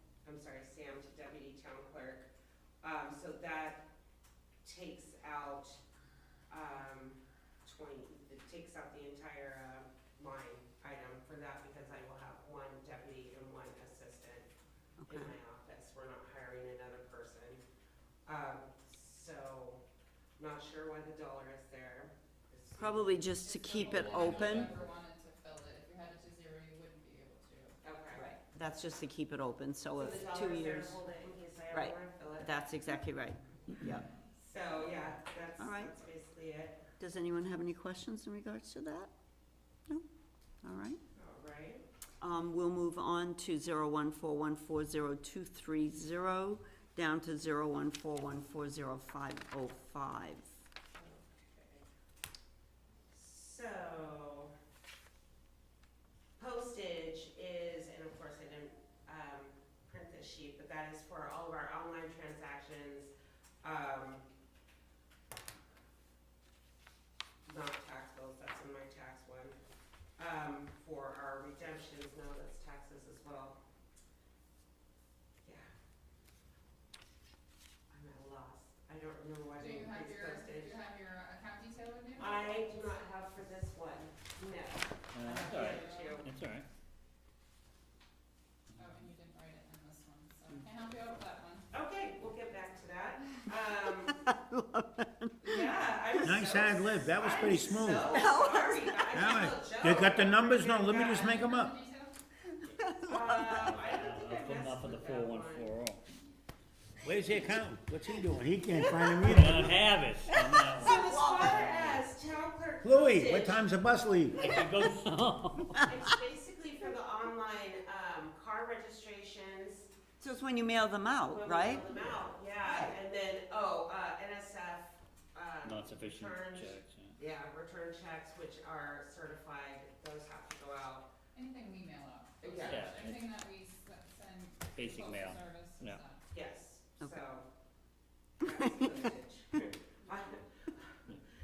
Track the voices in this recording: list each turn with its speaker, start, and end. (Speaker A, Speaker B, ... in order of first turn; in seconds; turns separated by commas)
Speaker A: 0.2-2.3, Speaker A: 2.8-3.9, Speaker A: 4.6-5.8, Speaker A: 6.5-14.5, Speaker B: 15.0-15.3, Speaker A: 15.1-17.6, Speaker A: 18.3-19.8, Speaker A: 20.4-24.9, Speaker B: 22.8-24.7, Speaker C: 23.4-27.8, Speaker A: 27.8-28.3, Speaker B: 28.1-31.0, Speaker A: 30.0-32.8, Speaker B: 31.7-34.1, Speaker A: 34.3-36.8, Speaker B: 35.6-35.9, Speaker B: 37.0-39.1, Speaker B: 40.6-41.0, Speaker A: 41.1-41.9, Speaker B: 42.2-50.6, Speaker A: 50.9-51.9, Speaker A: 53.1-54.5, Speaker A: 56.4-64.2, Speaker A: 67.5-69.5, Speaker A: 70.2-73.6, Speaker A: 77.9-80.8, Speaker C: 79.6-83.1, Speaker A: 82.2-86.3, Speaker D: 85.1-86.7, Speaker C: 85.4-86.2, Speaker C: 88.8-91.7, Speaker A: 91.7-94.2, Speaker B: 93.9-96.5, Speaker A: 95.4-101.5, Speaker E: 96.2-98.2, Speaker B: 97.9-99.3, Speaker E: 99.1-101.7, Speaker C: 101.0-102.2, Speaker B: 102.6-103.8, Speaker A: 103.1-105.7, Speaker D: 103.7-106.0, Speaker E: 107.0-109.9, Speaker B: 108.8-109.3, Speaker D: 109.3-112.0, Speaker B: 110.2-111.9, Speaker A: 110.8-113.8, Speaker E: 112.8-114.5, Speaker D: 114.3-115.9, Speaker B: 114.4-114.7, Speaker A: 115.9-119.9, Speaker B: 120.2-121.9, Speaker A: 121.3-131.1, Speaker B: 122.6-123.0, Speaker D: 125.6-127.2, Speaker C: 131.3-136.2, Speaker A: 132.4-133.0, Speaker D: 132.6-133.3, Speaker D: 134.8-136.0, Speaker A: 136.3-137.5, Speaker A: 138.4-141.2, Speaker B: 138.4-138.9